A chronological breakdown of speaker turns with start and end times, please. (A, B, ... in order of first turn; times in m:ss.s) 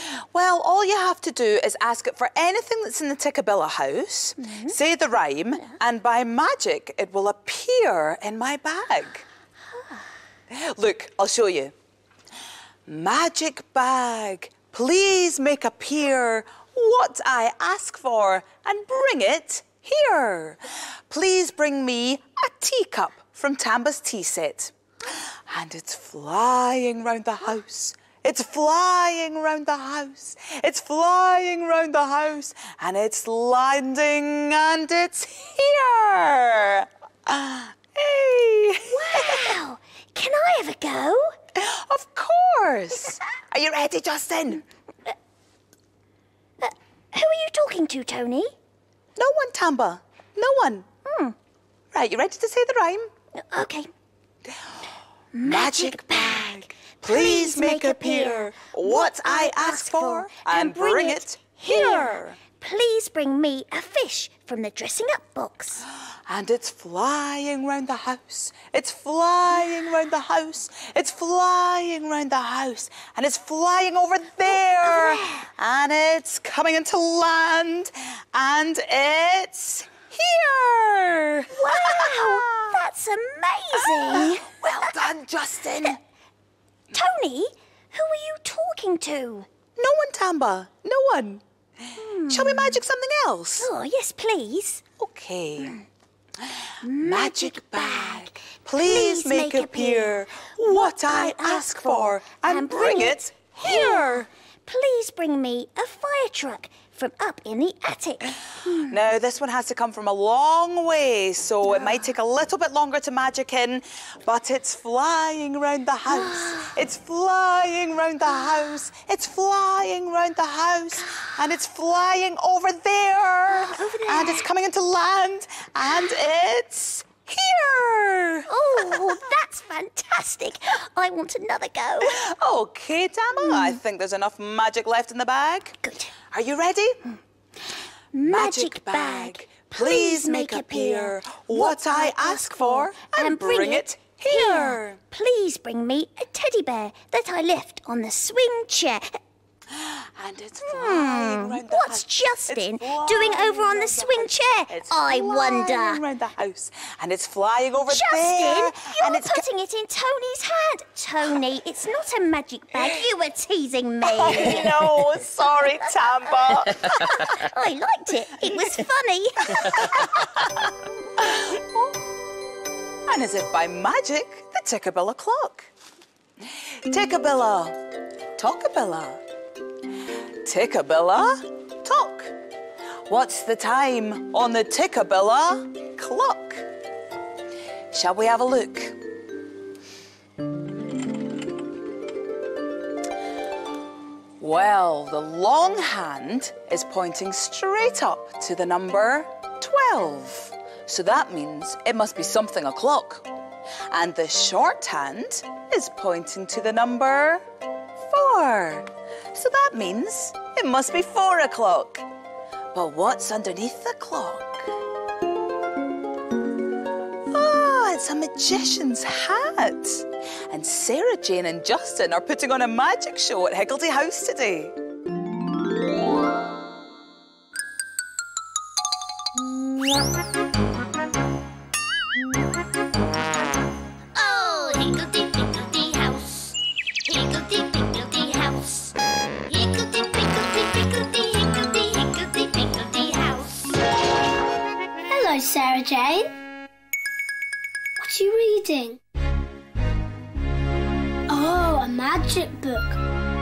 0:00.3-0:09.2 A
0:04.4-0:04.8 B
0:10.5-0:11.7 A
0:12.9-0:39.6 A
0:38.9-0:41.4 B
0:41.6-0:44.6 A
0:46.6-0:48.5 B
0:49.2-0:50.9 A
0:51.0-0:51.4 B
0:51.9-0:53.1 A
0:53.3-0:53.9 B
0:55.3-1:05.8 B
0:55.4-1:02.4 A
1:06.3-1:22.8 A
1:14.8-1:15.5 B
1:21.5-1:25.0 B
1:23.8-1:26.0 A
1:26.9-1:29.5 B
1:29.8-1:31.4 A
1:32.0-1:32.8 B
1:32.3-1:33.7 A
1:33.6-1:34.8 B
1:35.0-1:35.8 A
1:36.8-1:48.9 B
1:37.0-1:44.3 A
1:48.8-2:09.2 A
1:56.2-1:56.7 B
2:03.5-2:04.4 B
2:08.5-2:12.2 B
2:12.0-2:17.0 A
2:13.5-2:13.8 B
2:15.8-2:16.1 B
2:18.1-2:29.2 B
2:18.2-2:25.0 A
2:29.7-2:39.4 A
2:30.6-2:36.0 B
2:37.9-2:45.0 B
2:44.0-2:47.3 A
2:46.6-2:50.0 B
2:49.5-2:50.2 A
2:51.2-2:52.0 A
2:53.1-2:55.7 A
2:56.9-2:57.8 A
2:58.4-2:59.2 A
3:00.4-3:02.3 A
3:03.1-3:06.7 A
3:07.9-3:09.0 A
3:14.4-3:23.3 A
3:23.9-3:27.4 A
3:28.0-3:32.0 A
3:32.7-3:34.7 A
3:37.3-3:44.8 A
3:54.2-3:59.0 B
3:59.5-4:03.8 B
4:05.1-4:06.3 C
4:08.0-4:09.0 C
4:11.3-4:13.0 C